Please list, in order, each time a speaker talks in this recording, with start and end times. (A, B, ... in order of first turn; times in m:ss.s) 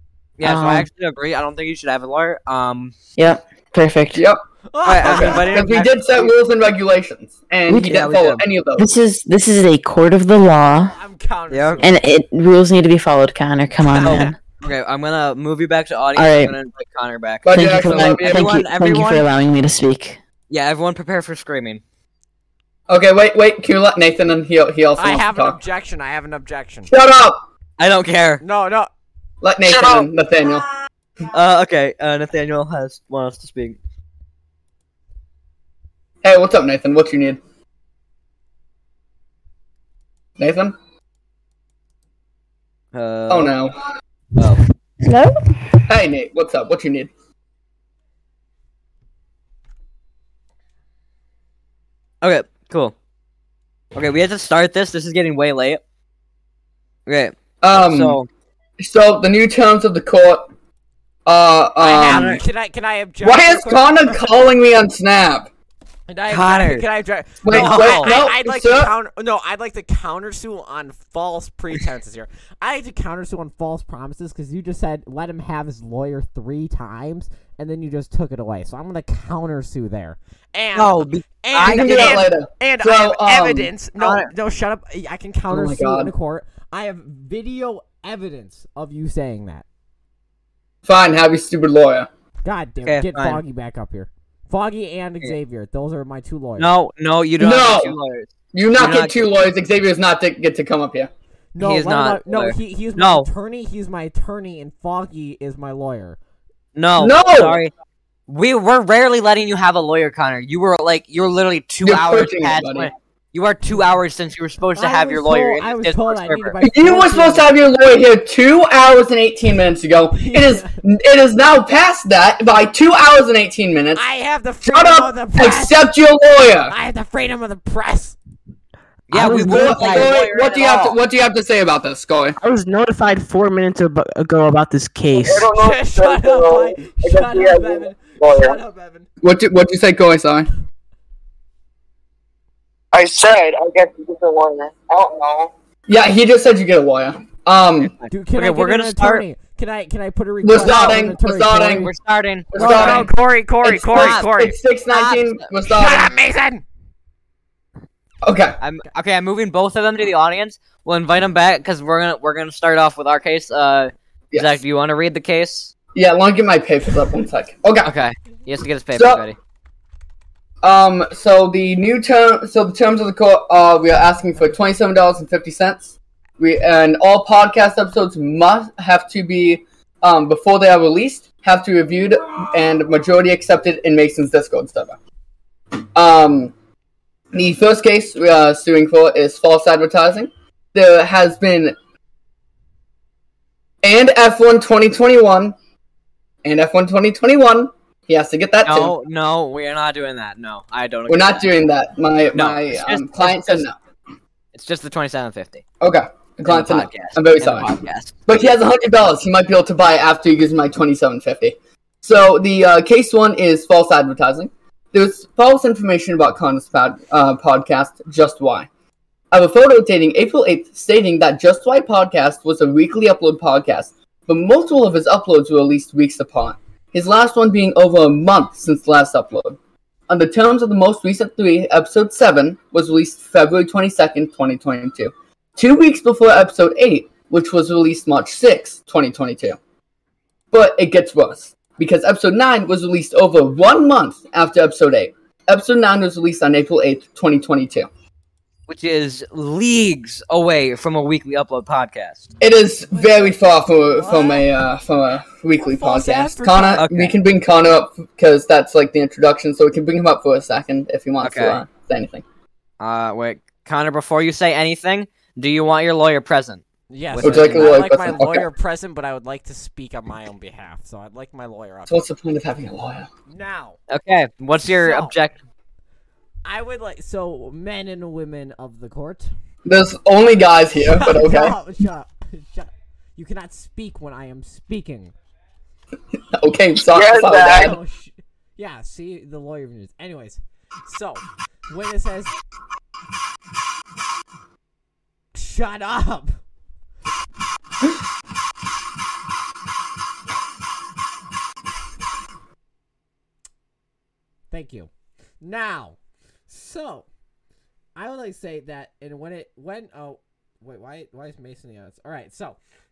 0:00.4-0:03.0 A
0:00.4-0:00.9 B
0:03.2-0:04.2 B
0:04.2-0:04.4 C
0:04.7-0:05.9 D
0:04.8-0:06.3 A
0:05.0-0:08.9 C
0:07.7-0:08.0 B
0:07.8-0:08.4 A
0:08.8-0:11.0 B
0:10.8-0:12.0 D
0:11.5-0:11.8 A
0:11.8-0:14.4 B
0:13.8-0:14.3 D
0:14.0-0:19.2 A
0:16.2-0:16.6 B
0:17.4-0:18.6 C
0:17.5-0:20.2 B
0:20.5-0:21.8 A
0:22.9-0:25.6 C
0:25.0-0:26.9 D
0:26.9-0:27.4 C
0:27.8-0:28.4 A
0:28.4-0:28.9 D
0:29.4-0:30.6 C
0:29.6-0:30.1 E
0:31.3-0:33.8 A
0:36.2-0:37.4 C
0:40.4-0:40.8 C
0:42.9-0:43.6 A
0:43.3-0:43.8 C
0:44.4-0:44.6 A
0:45.9-0:47.1 C
0:52.2-0:53.0 A
0:54.0-0:55.8 A
0:57.1-0:58.3 A
0:57.6-0:58.2 C
0:58.8-1:00.5 C
1:01.3-1:02.4 C
1:01.8-1:04.3 D
1:02.1-1:02.4 A
1:03.2-1:05.5 C
1:06.1-1:29.6 D
1:06.3-1:06.8 A
1:07.4-1:08.9 C
1:07.5-1:08.2 A
1:20.8-1:22.2 A
1:21.6-1:23.7 C
1:24.0-1:24.3 A
1:25.5-1:26.1 C
1:30.9-1:32.1 C
1:32.4-1:36.7 D
1:32.8-1:33.4 A
1:36.6-1:39.3 A
1:37.4-1:37.9 C
1:38.5-1:41.1 C
1:41.6-1:46.2 D
1:41.6-1:43.3 A
1:46.8-1:47.7 A
1:47.0-1:47.6 C
1:48.3-1:56.6 A
1:51.8-1:52.9 C
1:53.7-1:54.0 D
1:54.7-1:57.5 D
1:56.6-2:04.0 C
2:00.1-2:00.8 D
2:04.0-2:05.8 D
2:04.6-2:06.7 C
2:06.7-2:08.2 D
2:09.1-2:11.0 A
2:09.1-2:10.1 F
2:09.5-2:12.4 C
2:12.4-2:15.5 F
2:15.2-2:18.6 E
2:15.5-2:19.1 D
2:19.2-2:20.5 C
2:22.9-2:25.5 E
2:25.9-2:27.9 C
2:27.8-2:29.2 A
2:28.1-2:31.9 D
2:30.4-2:31.9 C
2:30.6-2:31.0 A
2:31.8-2:33.1 A
2:32.5-2:33.1 C
2:32.6-2:34.6 D
2:33.6-2:36.2 C
2:33.9-2:34.3 A
2:34.9-2:35.5 A
2:35.7-2:36.6 D
2:38.2-2:38.6 C
2:38.6-2:45.7 A
2:44.3-2:44.6 C
2:46.0-2:47.9 C
2:47.8-2:49.4 A
2:48.9-2:49.2 C
2:50.6-3:05.0 C
3:06.0-3:06.5 C
3:07.3-3:11.8 C
3:13.8-3:15.5 C
3:16.4-3:18.9 C
3:18.6-3:21.5 A
3:21.1-3:23.8 C
3:22.3-3:23.7 A
3:24.5-3:25.6 A
3:25.8-3:27.7 C
3:26.5-3:28.2 A
3:28.3-3:38.7 C
3:39.3-3:49.6 C
3:50.1-3:59.6 C
4:00.5-4:07.9 C
4:08.7-4:12.3 A
4:12.4-4:22.2 C
4:12.9-4:14.5 D
4:15.6-4:16.8 D
4:16.8-4:17.2 A
4:21.2-4:21.6 A
4:22.8-4:27.8 A
4:26.9-4:32.0 D
4:27.2-4:28.5 C
4:31.9-4:33.1 C
4:33.3-4:33.8 D
4:33.9-4:35.4 A
4:34.7-4:35.1 D
4:36.4-4:39.3 D
4:39.7-4:41.6 C
4:40.8-4:45.1 D
4:46.3-4:47.8 C
4:46.9-4:47.8 E
4:47.4-4:52.3 D
4:55.4-4:56.3 D
5:04.5-5:04.9 D
5:05.4-5:07.1 D
5:08.0-5:12.6 D